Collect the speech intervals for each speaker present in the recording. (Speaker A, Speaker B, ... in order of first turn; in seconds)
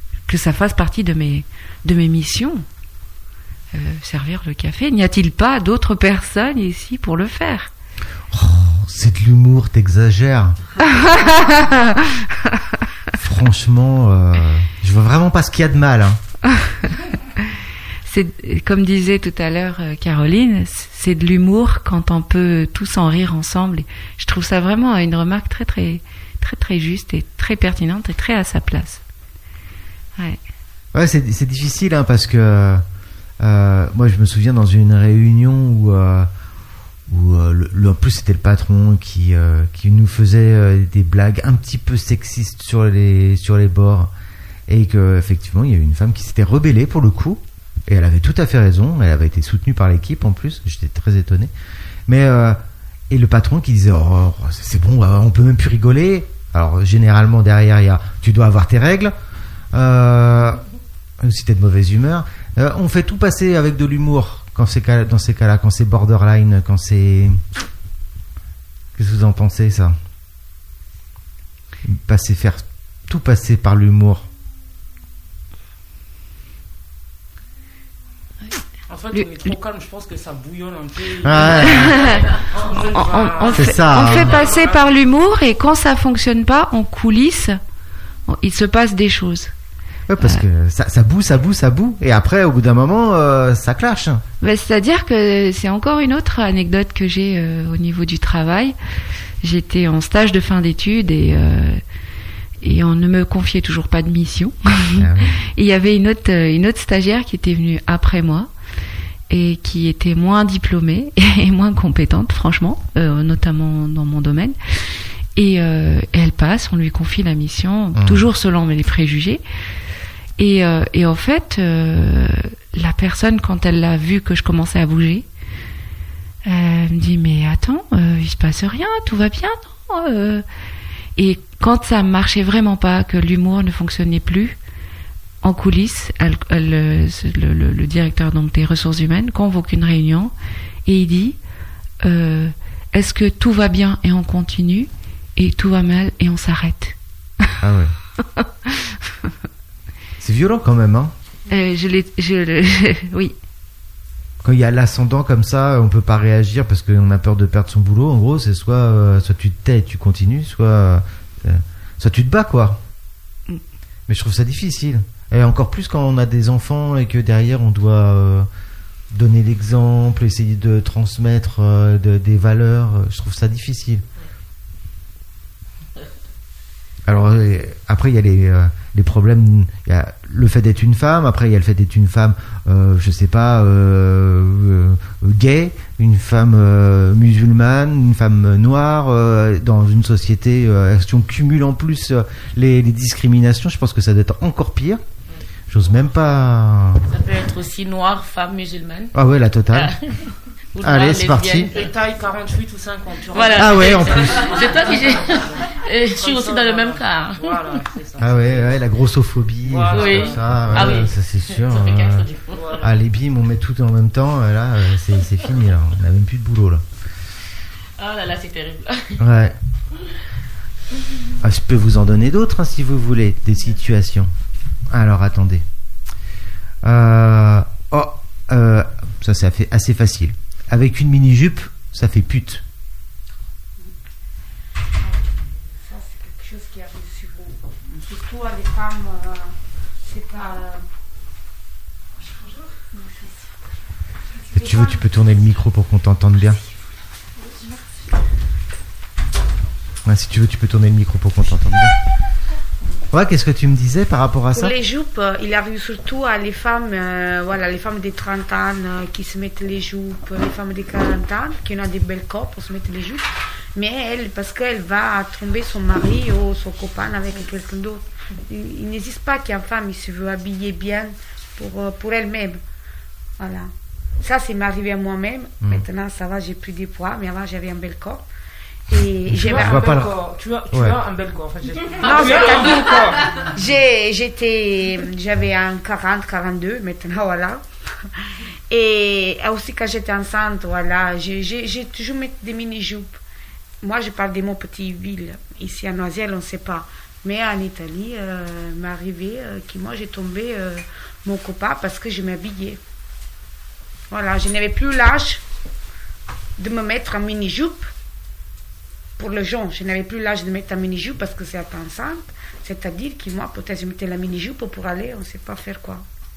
Speaker A: 0.3-2.6, 3.7-7.7, 10.8-12.2, 18.1-29.0, 78.5-79.5, 81.7-87.6, 88.3-89.5, 94.4-98.8, 99.4-101.8, 102.6-108.5, 109.3-119.4, 120.4-125.3, 126.5-130.4, 131.2-134.6, 135.4-140.3, 140.8-141.4, 142.0-147.0, 151.5-153.3
Speaker B: 8.3-11.3, 13.2-16.2, 30.9-32.8, 33.4-36.3, 37.1-44.1, 44.7-51.5, 52.1-52.6, 53.1-59.1, 59.7-60.6, 61.2-67.4, 69.0-70.0, 71.8-74.3, 81.2-82.1, 83.6-84.4, 90.1-94.2, 104.9-105.4, 117.9-118.2, 147.6-147.9, 150.2-151.1, 154.4-162.8, 164.1-168.5, 169.1-174.1, 177.1-195.0, 195.7-197.1, 199.1-199.9, 200.8-201.7, 203.5-204.5, 208.2-212.3, 212.8-216.8, 219.2-219.6, 221.4-224.3, 224.9-225.6, 226.8-232.6, 244.5-246.6, 250.1-251.9, 253.1-254.7, 279.3-280.1, 280.7-281.0
Speaker C: 78.9-84.8, 201.7-208.7, 209.7-211.0, 212.6-212.9, 279.4-283.3
Speaker D: 197.1-199.1, 199.7-201.9, 203.3-207.8, 209.9-212.6, 218.0-219.2
Speaker E: 235.9-240.8, 254.5-272.6, 273.4-278.2, 278.9-279.9, 283.5-288.1, 288.7-293.2, 293.8-302.8, 304.1-305.4, 306.6-307.9, 309.2-316.0